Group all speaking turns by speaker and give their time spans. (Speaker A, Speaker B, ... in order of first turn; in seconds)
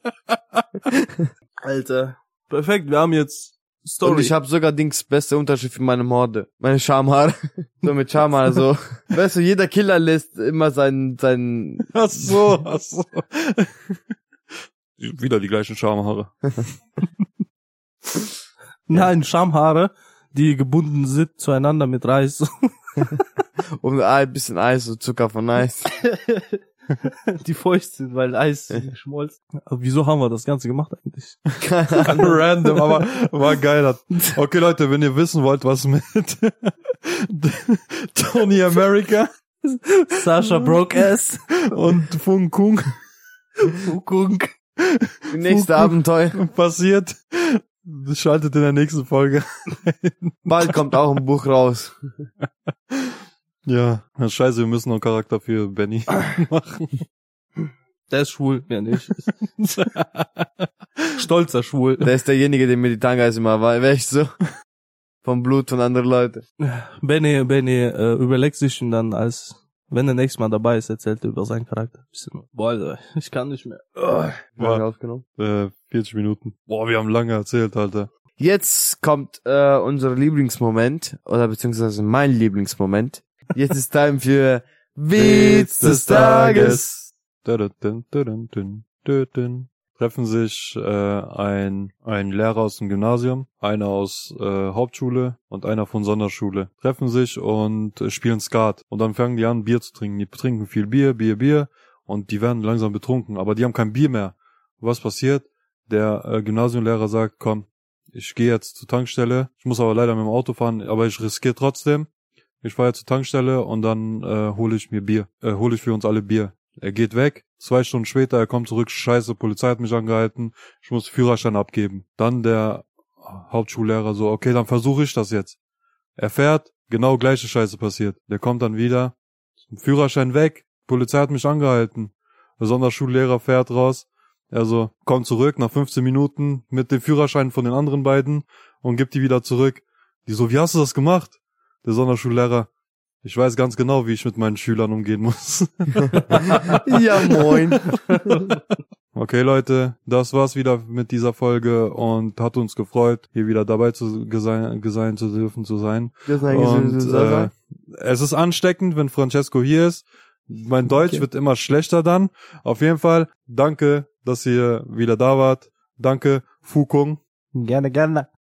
Speaker A: 1.6-4.3, 18.9-23.2, 25.9-33.1, 39.6-41.8, 43.7-44.6, 58.1-59.4, 61.1-62.1, 66.6-74.4, 85.8-86.8, 148.1-148.4, 167.5-168.2
Speaker B: 4.0-12.3, 23.8-25.9, 31.6-32.1, 45.3-46.4, 50.5-52.0, 62.0-64.4, 65.2-66.4, 74.6-75.2, 78.4-86.9, 146.6-147.9, 156.3-157.5
Speaker C: 11.9-14.1, 15.0-16.6, 32.1-39.3, 41.7-42.9, 44.8-50.8, 52.9-57.0, 59.8-61.1, 75.4-78.1, 85.1-112.1, 112.6-125.6, 126.2-129.1, 129.7-142.7, 143.2-146.8, 149.1-167.2